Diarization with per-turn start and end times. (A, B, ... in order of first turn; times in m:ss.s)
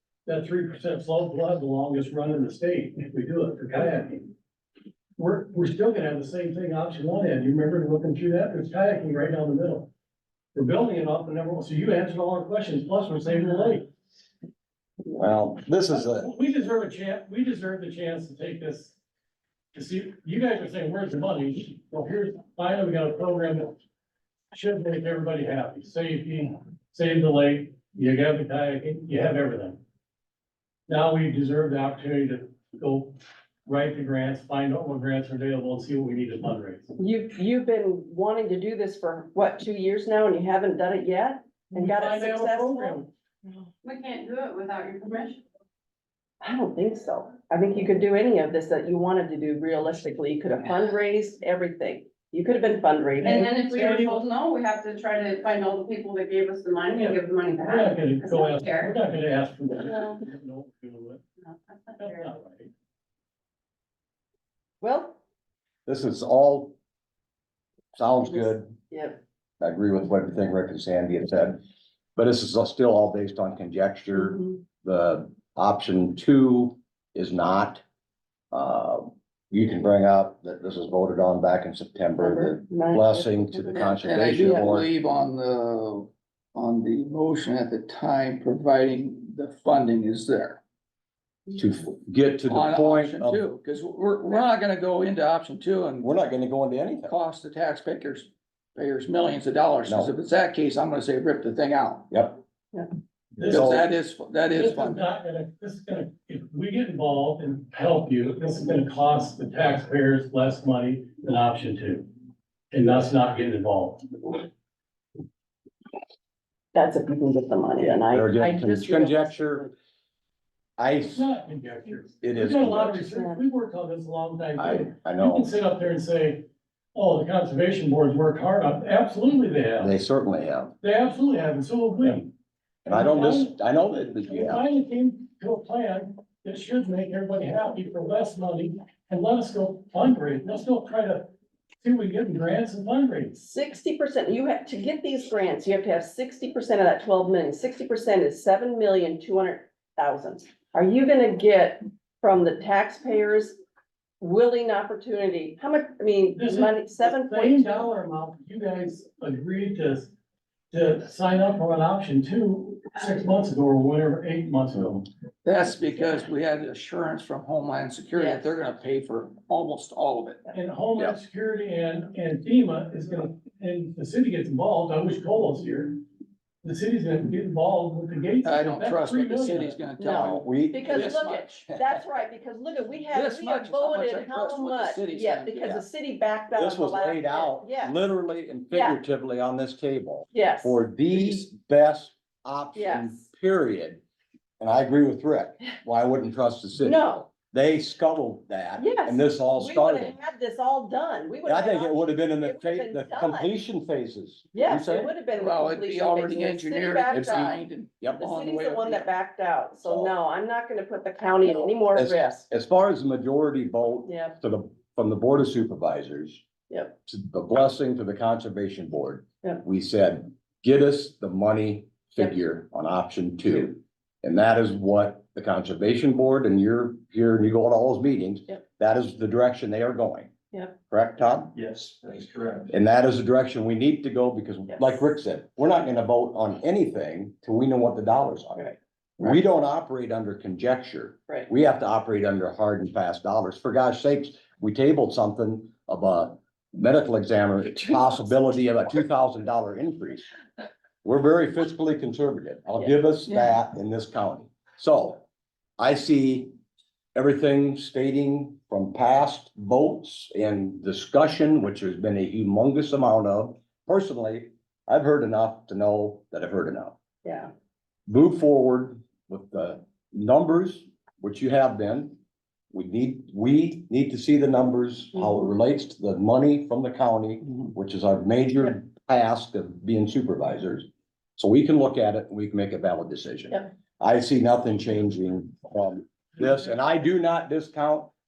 0:00.3-0:04.3 A
0:05.2-0:09.9 A
0:10.6-0:13.9 A
0:15.1-0:16.3 B
0:15.9-0:19.0 A
0:19.7-0:23.8 A
0:24.5-0:29.8 A
0:30.9-0:37.0 A
0:37.0-0:43.0 C
0:41.7-0:43.1 A
0:43.8-0:45.4 D
0:46.4-0:53.5 C
0:53.2-0:54.2 A
0:53.2-0:58.9 D
0:57.6-1:01.2 A
1:01.5-1:02.3 D
1:02.0-1:02.7 A
1:04.8-1:05.2 C
1:05.9-1:06.8 B
1:08.0-1:08.8 B
1:08.3-1:09.2 C
1:09.6-1:11.6 B
1:12.2-1:17.8 B
1:14.2-1:14.6 C
1:18.5-1:24.9 B
1:22.2-1:23.9 C
1:23.7-1:30.6 E
1:24.4-1:24.7 C
1:31.5-1:33.4 B
1:32.5-1:36.1 E
1:36.0-1:37.2 B
1:37.1-1:42.1 E
1:39.9-1:40.1 B
1:42.1-1:42.4 B
1:43.4-1:43.9 A
1:43.5-1:45.0 E
1:43.5-1:43.8 B
1:44.5-1:52.1 A
1:52.7-1:54.4 A
1:56.7-1:59.7 C
1:58.1-1:59.7 B
2:00.8-2:01.3 B
2:01.1-2:09.9 A
2:02.2-2:03.1 B
2:03.1-2:03.4 C
2:04.6-2:05.5 B
2:09.8-2:10.7 B
2:10.8-2:12.3 A
2:12.0-2:12.3 B
2:12.8-2:14.6 B
2:12.9-2:13.5 A
2:14.2-2:23.4 A
2:23.4-2:33.6 C
2:34.2-2:37.9 C
2:36.4-2:40.1 A
2:40.7-2:45.1 A
2:45.4-2:50.5 E
2:48.2-2:48.5 C
2:50.5-2:56.0 A
2:56.6-2:59.8 A
2:58.4-3:01.7 E
3:00.0-3:08.0 C
3:00.1-3:01.3 B
3:03.1-3:05.8 E
3:06.6-3:14.0 B
3:08.7-3:09.0 C
3:10.3-3:10.8 C
3:12.8-3:13.3 C
3:14.6-3:20.2 B
3:16.8-3:17.3 C
3:18.8-3:23.5 C
3:21.4-3:25.1 B
3:24.5-3:27.6 C
3:25.4-3:29.1 E
3:27.1-3:28.3 B
3:28.2-3:32.5 C
3:29.8-3:30.1 B
3:31.9-3:36.4 B
3:34.1-3:34.4 C
3:36.7-3:37.0 C
3:37.1-3:50.3 B
3:50.9-3:51.5 B
3:51.6-3:52.7 E
3:52.7-3:58.7 B
3:54.7-3:55.0 C
3:59.2-4:10.2 B
4:11.0-4:15.2 B
4:15.8-4:16.5 B
4:17.2-4:27.0 B
4:27.2-4:27.5 C
4:28.1-4:32.2 B
4:32.7-4:48.1 B